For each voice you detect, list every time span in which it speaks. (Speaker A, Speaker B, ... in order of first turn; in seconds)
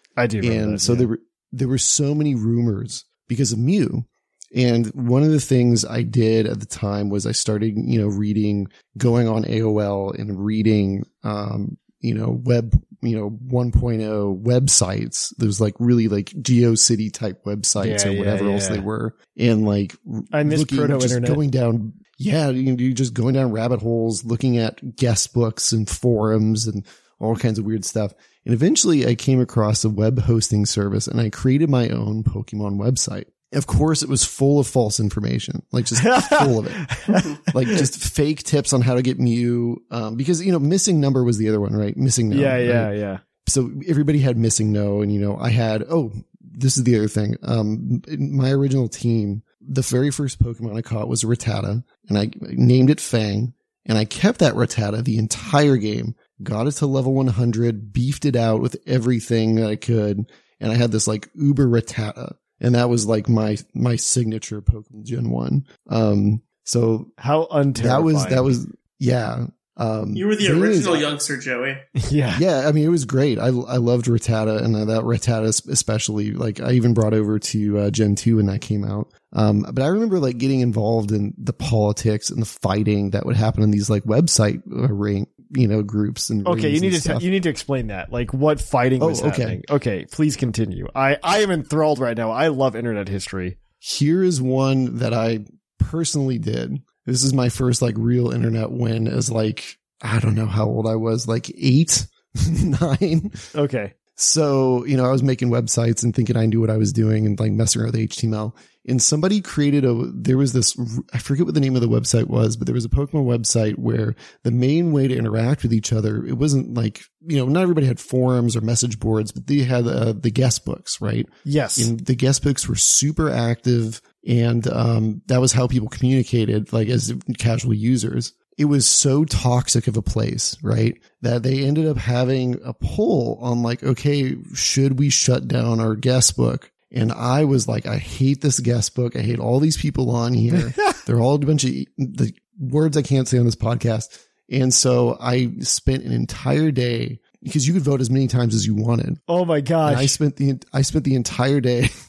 Speaker A: 0.2-1.1, 17.8-18.8, 20.3-21.4, 36.0-37.8, 42.3-43.2, 67.2-68.6, 72.0-72.4, 86.4-93.6, 103.5-103.9, 121.4-121.9, 140.5-141.0, 149.3-150.2
Speaker B: 0.4-36.9, 37.5-42.9, 43.4-67.1, 67.7-71.1, 72.3-87.2, 89.0-89.6, 93.8-103.4, 104.2-149.2, 149.8-151.9
Speaker C: 37.1-37.4, 70.1-71.8